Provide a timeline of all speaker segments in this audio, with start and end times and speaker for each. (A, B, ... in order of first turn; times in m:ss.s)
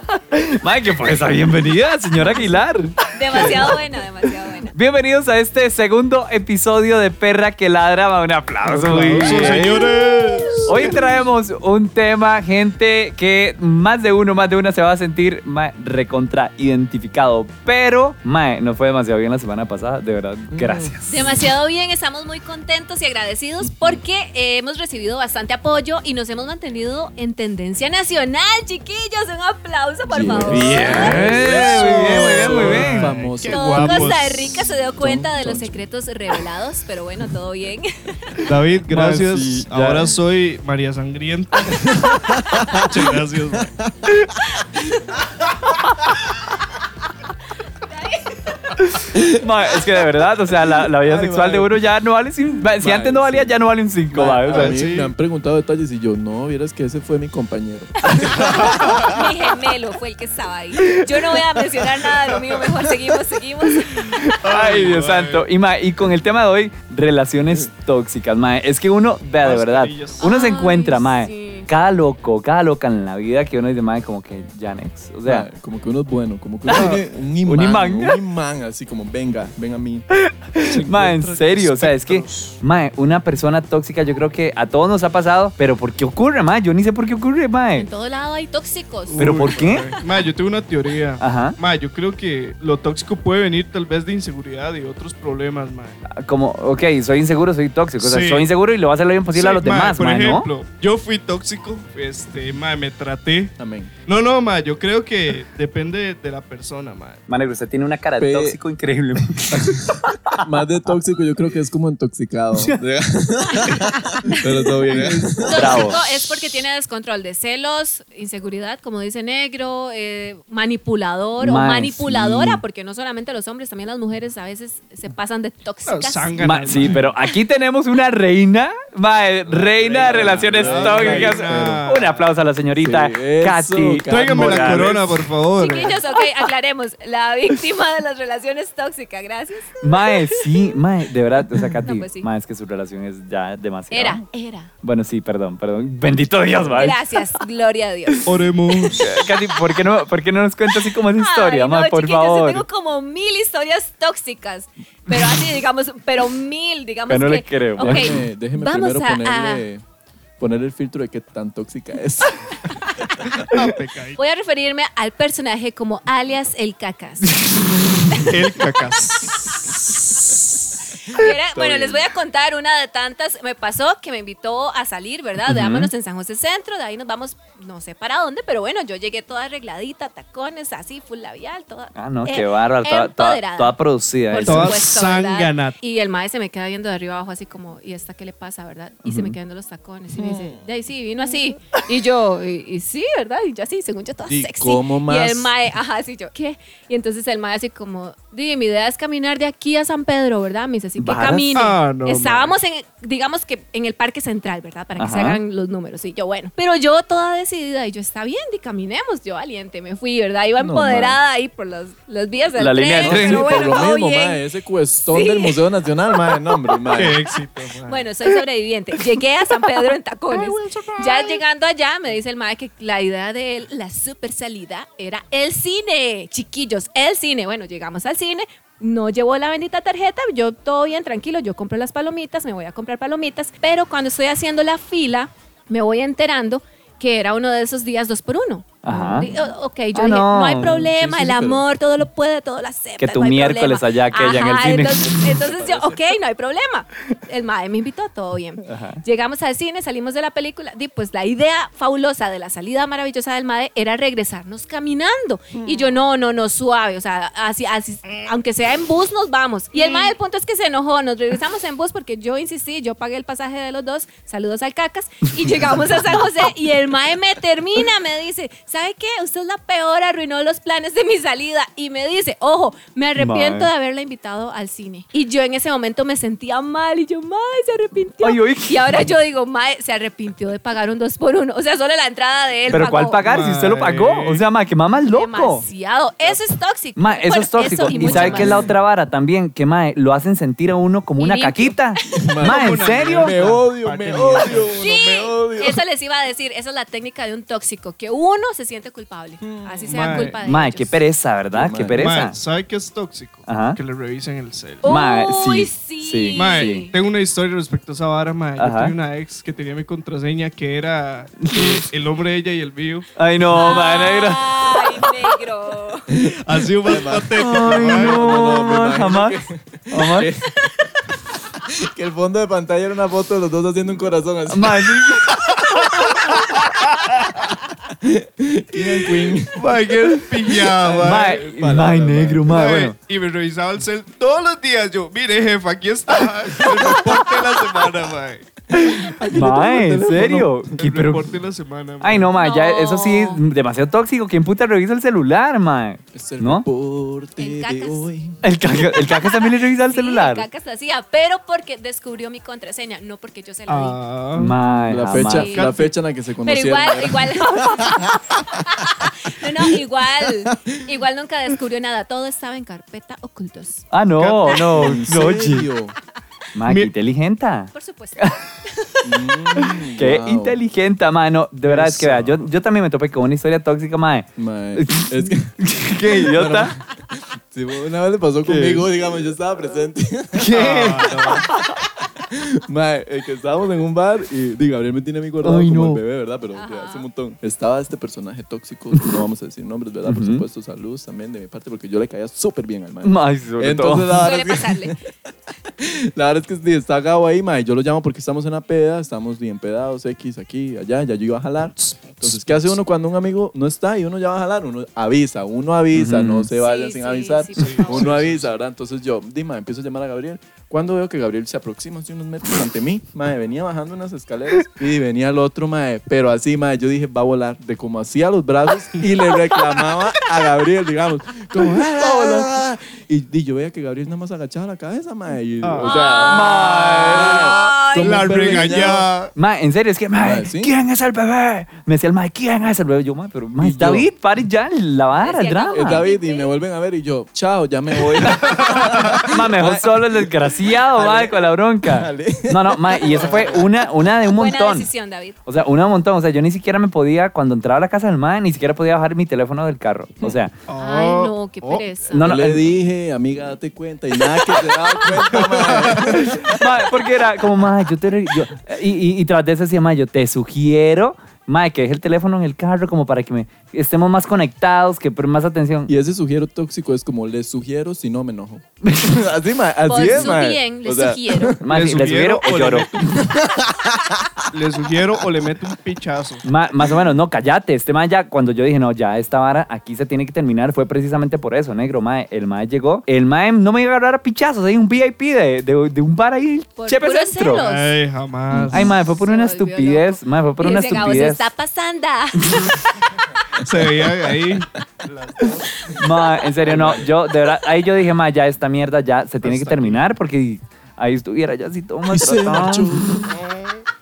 0:00.3-0:03.8 A
0:03.1-0:04.7 B
0:04.7-0:10.0 A
0:08.6-0:11.2 C
0:10.6-0:21.2 A
0:20.5-0:21.4 D
0:21.1-0:31.2 B
0:30.1-0:34.4 D
0:30.4-0:33.1 A
0:30.7-0:34.5 C
0:33.4-0:38.2 B
0:35.0-0:35.8 D
0:38.4-0:42.2 C
0:38.9-0:40.1 A
0:42.1-0:43.0 D
0:42.8-0:43.7 C
0:43.6-0:44.1 D
0:47.9-0:48.5 B
0:48.8-0:54.8 A
0:50.8-0:51.7 D
0:52.8-0:53.6 D
0:54.1-0:59.1 D
0:54.4-0:55.1 C
0:58.4-1:04.0 B
0:58.4-0:58.9 C
1:04.2-1:15.5 A
1:04.4-1:05.5 C
1:09.4-1:10.3 C
1:10.2-1:11.7 B
1:15.2-1:20.0 D
1:16.7-1:18.2 A
1:20.1-1:27.9 A
1:20.8-1:22.6 C
1:27.8-1:29.3 B
1:29.1-1:36.0 C
1:29.2-1:29.9 A
1:31.2-1:31.6 A
1:36.1-1:40.5 A
1:38.0-1:38.5 C
1:39.3-1:43.6 C
1:43.6-1:43.9 D
1:44.0-1:47.2 C
1:47.3-1:50.4 A
1:48.2-1:48.6 D
1:49.5-1:55.9 D
1:55.4-2:06.4 B
1:55.5-1:56.0 A
2:01.4-2:02.6 A
2:05.9-2:07.2 C
2:06.4-2:15.1 A
2:09.5-2:11.8 D
2:09.9-2:12.3 C
2:12.8-2:15.2 D
2:14.1-2:16.0 C
2:15.6-2:20.1 B
2:19.8-2:24.2 A
2:21.8-2:22.3 B
2:23.9-2:24.7 B
2:24.8-2:27.4 A
2:26.6-2:26.9 D
2:26.8-2:28.2 B
2:28.2-2:29.1 C
2:28.9-2:32.6 A
2:31.2-2:39.6 B
2:37.1-2:38.2 A
2:37.8-2:39.8 D
2:40.4-2:42.4 D
2:43.5-2:44.2 C
2:44.2-2:47.4 B
2:48.3-2:49.7 C
2:51.1-3:34.4 B
2:51.2-2:52.0 D
2:55.4-2:55.9 A
3:01.9-3:04.8 A
3:04.4-3:05.8 C
3:09.0-3:09.4 A
3:10.3-3:10.6 D
3:14.2-3:15.5 D
3:21.0-3:21.5 A
3:21.6-3:22.6 C
3:25.0-3:25.4 A
3:30.6-3:31.2 D
3:32.6-3:33.6 A
3:33.0-3:37.2 D
3:35.1-3:35.6 B
3:36.9-3:38.1 C
3:37.9-4:43.2 B
3:40.3-3:41.4 C
3:58.8-3:59.3 A
3:59.9-4:00.9 A
4:00.6-4:01.6 D
4:03.0-4:05.4 A
4:05.0-4:06.0 D
4:08.6-4:09.0 A
4:15.5-4:15.9 D
4:33.2-4:33.7 A
4:38.2-4:39.1 A
4:42.7-4:45.7 A
4:43.2-4:44.4 C
4:45.0-4:48.7 B
4:47.0-4:53.4 A
4:47.8-4:48.7 D
4:48.1-4:48.6 C
4:51.2-4:51.8 B
4:52.1-4:55.8 D
4:52.4-4:55.1 C
4:54.8-5:01.0 B
4:59.4-5:00.2 D
4:59.9-5:00.4 C
5:00.4-5:02.4 A
5:01.5-5:02.2 D
5:02.0-5:04.9 C
5:03.4-5:03.8 A
5:04.8-5:06.9 B
5:04.9-5:06.9 A
5:06.4-5:13.1 C
5:08.6-5:08.9 A
5:11.4-5:11.9 A
5:13.2-5:14.8 A
5:13.5-5:16.1 B
5:16.1-5:20.6 D
5:16.4-5:18.4 C
5:17.4-5:20.3 A
5:21.8-5:24.9 D
5:24.5-5:25.2 A
5:25.5-5:25.7 C
5:26.6-5:27.2 C
5:28.0-5:29.6 D
5:29.2-5:31.5 C
5:30.2-5:32.5 D
5:31.0-5:32.9 A
5:32.5-5:38.5 C
5:36.6-5:37.3 D
5:38.7-5:40.7 D
5:39.2-5:42.3 C
5:39.3-5:41.3 A
5:42.0-5:46.7 A
5:42.4-5:43.4 B
5:46.1-5:48.4 D
5:47.4-5:48.1 B
5:48.4-5:50.5 A
5:49.0-5:54.0 B
5:53.7-5:54.6 C
5:54.4-5:55.6 A
5:54.9-5:58.6 D
5:55.1-5:55.8 B
5:55.3-5:55.9 C
5:56.4-6:03.9 B
6:00.5-6:00.8 D
6:03.9-6:05.7 A
6:04.2-6:06.0 D
6:06.6-6:08.4 A
6:06.7-6:06.9 C
6:07.7-6:08.8 B
6:09.0-6:10.6 D
6:09.6-6:16.8 A
6:11.7-6:12.2 D
6:11.9-6:12.3 C
6:14.4-6:15.6 D
6:16.1-6:21.3 D
6:18.4-6:18.9 A
6:20.4-6:20.9 A
6:20.5-6:21.5 C
6:22.2-6:35.0 D
6:25.4-6:26.0 A
6:26.5-6:27.1 B
6:30.0-6:30.4 A
6:33.0-6:34.3 A
6:34.2-6:34.9 B
6:35.8-7:09.1 D
6:41.8-6:42.8 C
6:45.9-6:46.5 A
6:46.6-6:48.2 B
6:47.6-6:48.5 C
7:05.6-7:06.1 C
7:05.8-7:08.2 B
7:06.2-7:07.5 A
7:07.7-7:09.3 C
7:09.4-7:16.0 A
7:10.2-7:10.7 D
7:13.6-7:14.1 D
7:15.1-7:16.5 B
7:15.7-7:23.6 D
7:18.1-7:24.9 A
7:18.8-7:19.2 C
7:23.1-7:23.6 C
7:24.3-7:25.4 B
7:25.4-7:30.5 A
7:30.7-7:32.1 C
7:30.8-7:32.3 B
7:32.1-7:32.6 A
7:32.2-7:36.6 D
7:35.2-7:36.1 C
7:36.5-7:45.9 A
7:45.9-7:51.6 D
7:48.8-7:49.1 A
7:49.9-7:51.6 B
7:51.6-7:52.9 A
7:51.7-7:53.3 C
7:53.2-7:54.2 D
7:54.5-7:56.4 C
7:56.4-8:07.6 A
8:06.8-8:08.0 B
8:07.6-8:09.0 C
8:08.5-8:08.8 D
8:08.6-8:11.5 A
8:08.8-8:12.5 B
8:13.6-8:16.0 C
8:16.0-8:23.2 A
8:16.6-8:17.1 C
8:19.4-8:19.9 D
8:19.6-8:20.0 C
8:22.1-8:23.3 D
8:23.3-8:23.8 C